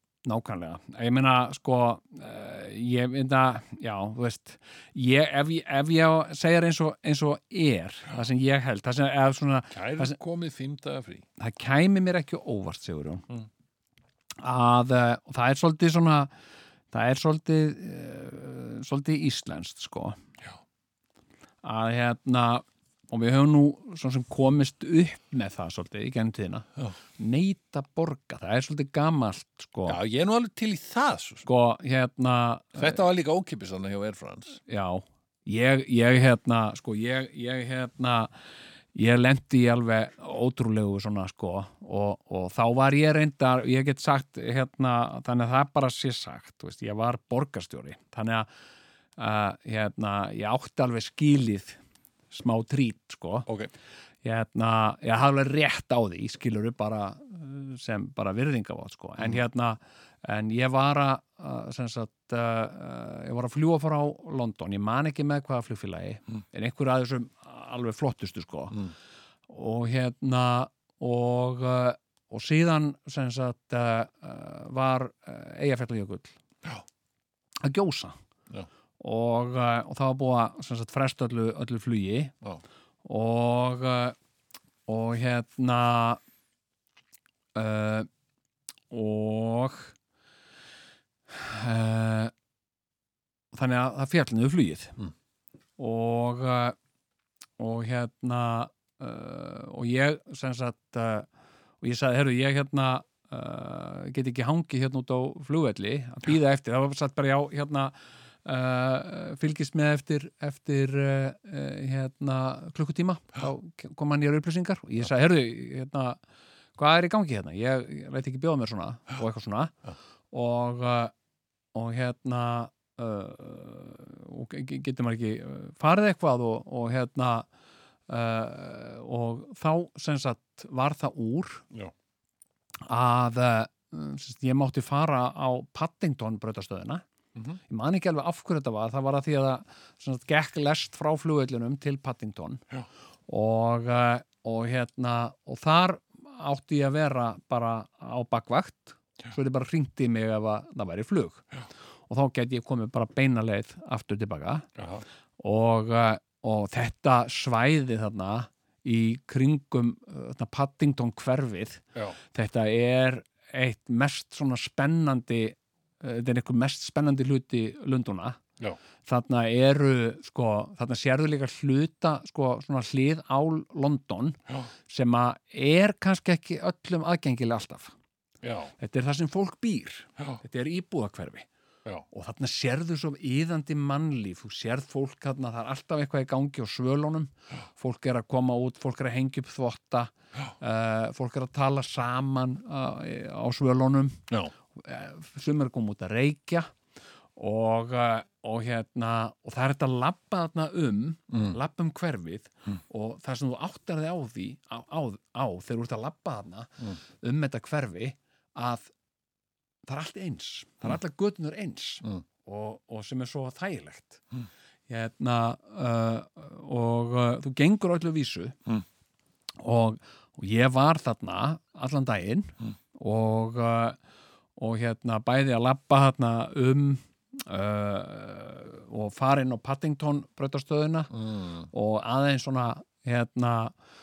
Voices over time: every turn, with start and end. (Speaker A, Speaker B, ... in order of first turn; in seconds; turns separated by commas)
Speaker A: 0.2-10.2, Speaker B: 9.7-11.3, Speaker A: 11.4-13.2, Speaker A: 14.4-16.3, Speaker A: 16.9-20.2, Speaker A: 21.6-26.7, Speaker A: 27.2-30.0, Speaker B: 29.9-31.5, Speaker A: 31.5-33.0, Speaker B: 32.8-34.6, Speaker A: 34.7-38.3, Speaker A: 39.0-48.5, Speaker A: 49.2-51.8, Speaker A: 52.3-53.5, Speaker A: 54.2-68.8, Speaker A: 69.5-76.4, Speaker A: 77.6-78.2, Speaker A: 79.0-82.3, Speaker A: 83.0-84.2, Speaker A: 84.9-86.2, Speaker A: 87.5-88.1, Speaker A: 88.9-89.9, Speaker A: 91.3-92.3, Speaker A: 93.5-95.0, Speaker A: 95.8-96.8, Speaker A: 97.6-101.3, Speaker A: 101.8-107.9, Speaker A: 108.5-116.2, Speaker A: 116.8-119.8, Speaker A: 120.3-121.1, Speaker A: 121.8-127.5, Speaker A: 128.1-131.7, Speaker A: 132.9-137.0, Speaker A: 137.7-142.6, Speaker A: 143.3-151.4, Speaker A: 152.1-154.7, Speaker B: 154.8-155.0, Speaker A: 155.4-168.4, Speaker A: 169.1-177.9, Speaker B: 178.4-178.7, Speaker A: 178.8-181.5, Speaker A: 182.1-194.2, Speaker A: 194.8-196.7, Speaker A: 197.4-208.9, Speaker A: 209.9-214.2, Speaker A: 214.9-218.6, Speaker A: 219.6-224.0, Speaker A: 224.6-231.1, Speaker B: 231.1-231.7, Speaker A: 231.7-233.7